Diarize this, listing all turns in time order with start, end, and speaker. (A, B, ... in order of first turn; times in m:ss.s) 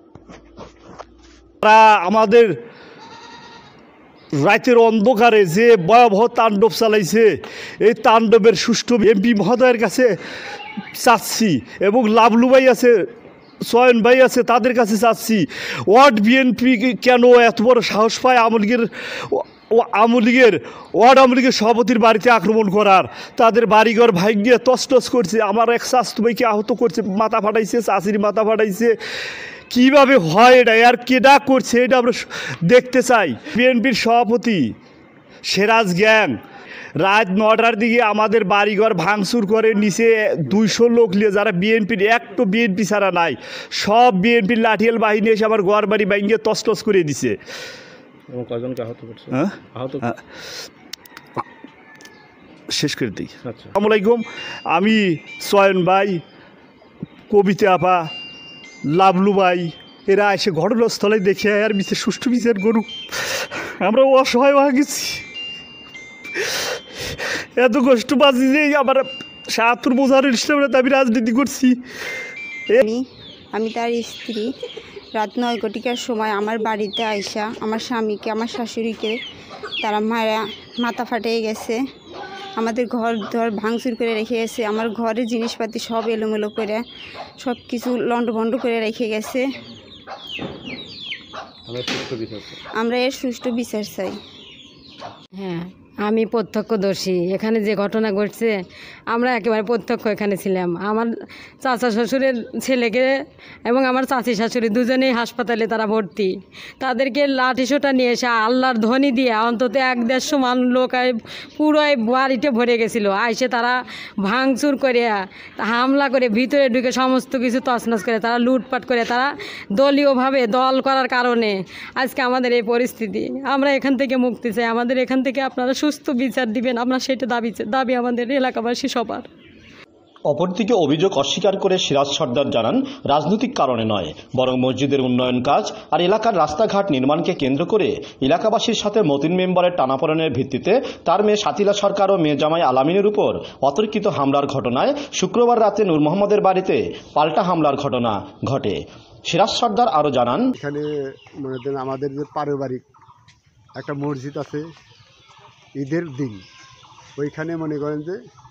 0:01.6-0:02.6 A
0:04.4-0:10.1 A
0:11.0-0:13.1 A
0:13.6-0:29.0 A
0:29.7-0:34.7 A
0:35.4-0:36.4 A
0:37.0-0:47.4 A
0:48.3-0:50.0 B
0:49.3-0:50.1 A
0:52.7-0:56.2 A
0:57.3-0:58.1 A
0:58.9-1:05.2 A
1:07.6-1:11.8 A
1:12.8-1:14.5 C
1:15.1-1:19.2 C
1:19.8-1:21.8 C
1:22.6-1:26.8 C
1:27.4-1:29.5 C
1:31.7-1:32.6 B
1:32.8-1:34.2 C
1:35.4-1:38.6 D
1:39.1-1:41.1 D
1:41.6-1:43.1 D
1:43.6-2:09.3 D
2:10.3-2:30.5 E
2:30.6-2:30.9 F
2:31.4-2:32.8 F
2:33.8-2:34.6 F
2:35.8-2:36.4 F
2:37.2-2:38.2 F